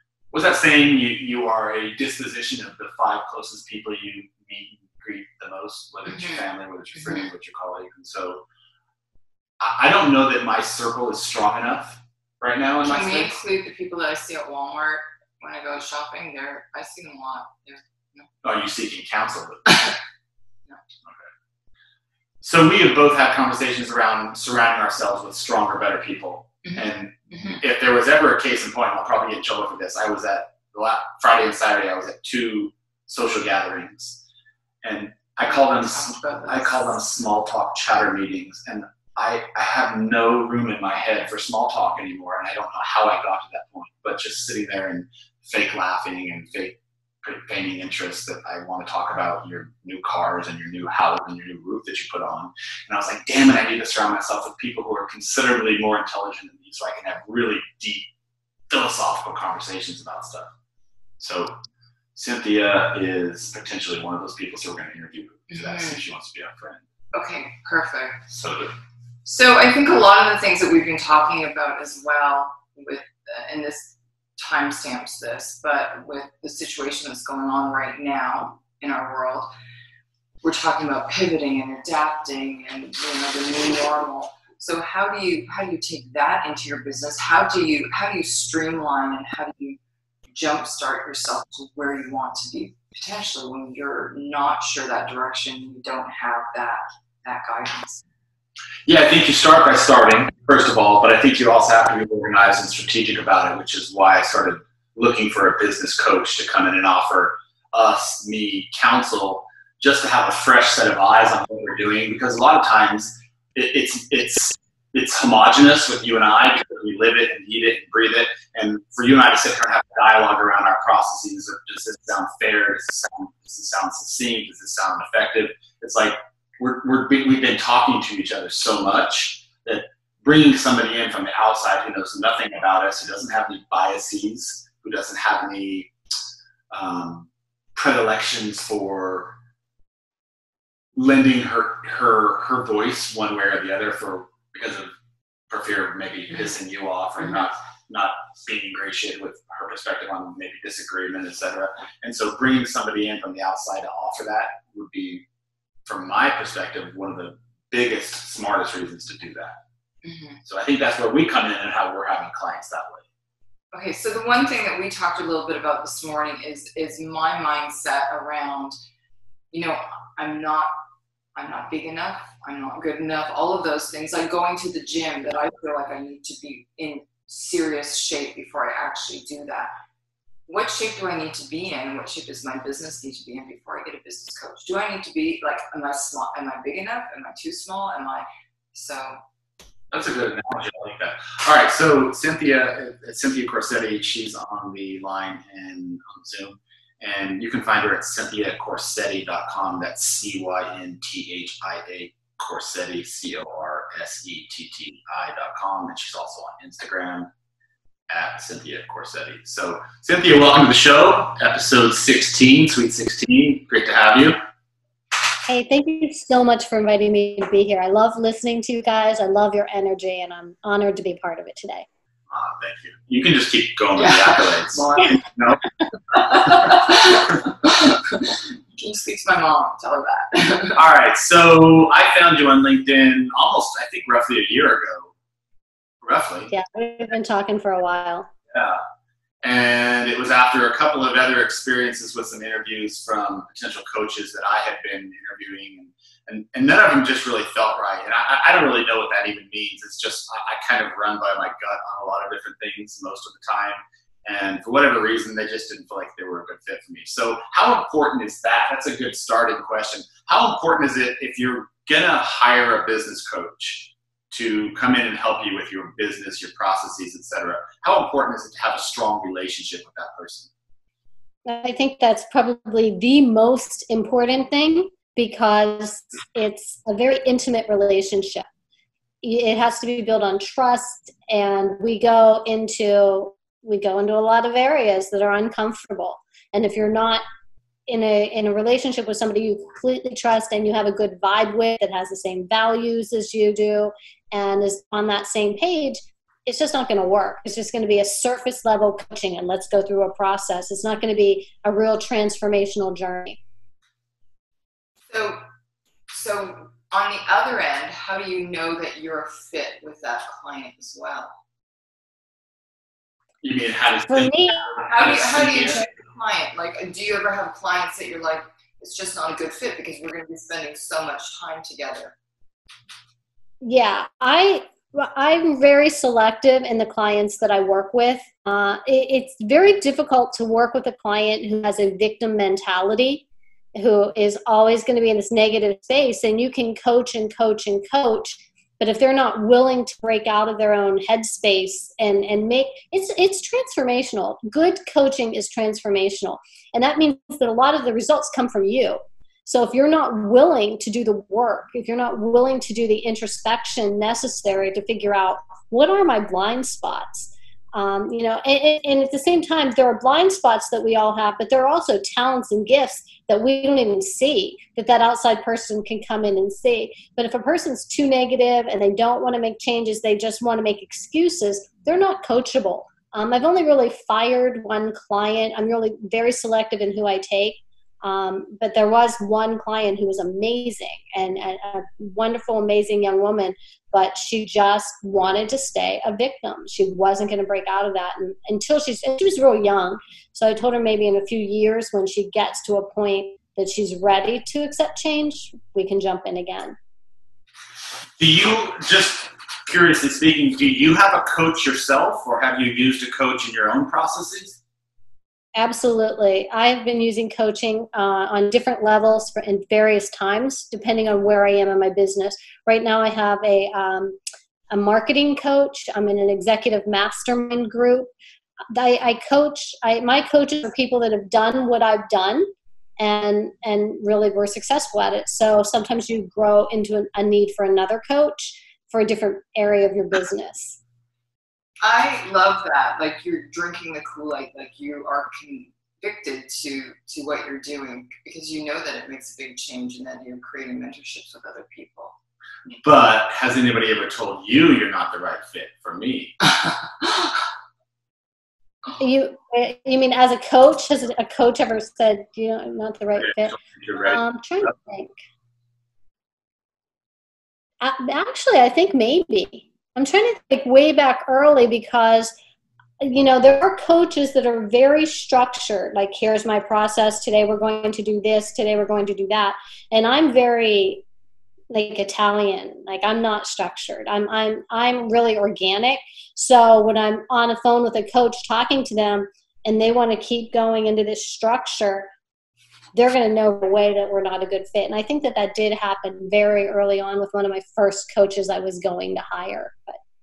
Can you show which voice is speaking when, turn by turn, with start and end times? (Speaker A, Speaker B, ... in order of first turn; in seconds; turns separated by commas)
Speaker A: 0.3-8.4, Speaker B: 6.0-6.4, Speaker A: 9.6-13.4, Speaker B: 12.8-18.3, Speaker A: 18.4-19.8, Speaker B: 19.7-19.9, Speaker A: 22.4-34.2, Speaker B: 26.6-27.6, Speaker A: 34.8-58.1, Speaker B: 35.5-37.0, Speaker A: 58.7-60.5, Speaker A: 61.2-61.5, Speaker A: 62.1-66.8, Speaker B: 65.5-66.0, Speaker B: 67.1-68.2, Speaker A: 68.3-68.7, Speaker B: 69.2-79.5, Speaker B: 80.4-89.8, Speaker B: 90.3-98.0, Speaker A: 98.8-135.9, Speaker A: 136.7-139.3, Speaker A: 140.9-144.9, Speaker A: 145.5-155.2, Speaker A: 155.8-159.6, Speaker B: 160.0-160.4, Speaker A: 160.4-163.1, Speaker B: 163.7-168.8, Speaker B: 169.5-170.7, Speaker B: 171.3-179.7, Speaker B: 180.5-189.2, Speaker A: 189.9-207.3, Speaker A: 208.1-214.4, Speaker C: 215.5-221.8, Speaker A: 222.3-225.6, Speaker B: 223.9-225.3, Speaker B: 226.1-230.8, Speaker A: 230.7-235.1, Speaker A: 236.0-236.5, Speaker C: 236.5-238.3, Speaker A: 238.5-238.8, Speaker A: 239.4-270.5, Speaker C: 271.4-278.4, Speaker C: 279.2-287.2, Speaker C: 287.9-303.4, Speaker B: 305.1-305.4, Speaker B: 306.1-311.4, Speaker A: 313.4-315.8, Speaker C: 314.1-314.6, Speaker B: 314.8-322.1, Speaker C: 323.6-396.8, Speaker A: 398.2-404.6, Speaker C: 405.6-414.2, Speaker C: 414.7-418.1, Speaker C: 418.7-422.5, Speaker C: 423.0-430.8, Speaker B: 431.8-442.1, Speaker A: 442.8-446.3, Speaker B: 446.5-447.3, Speaker C: 449.0-455.1, Speaker A: 453.2-454.2, Speaker C: 457.8-462.3, Speaker C: 463.0-471.0, Speaker C: 471.7-482.1, Speaker C: 482.9-490.0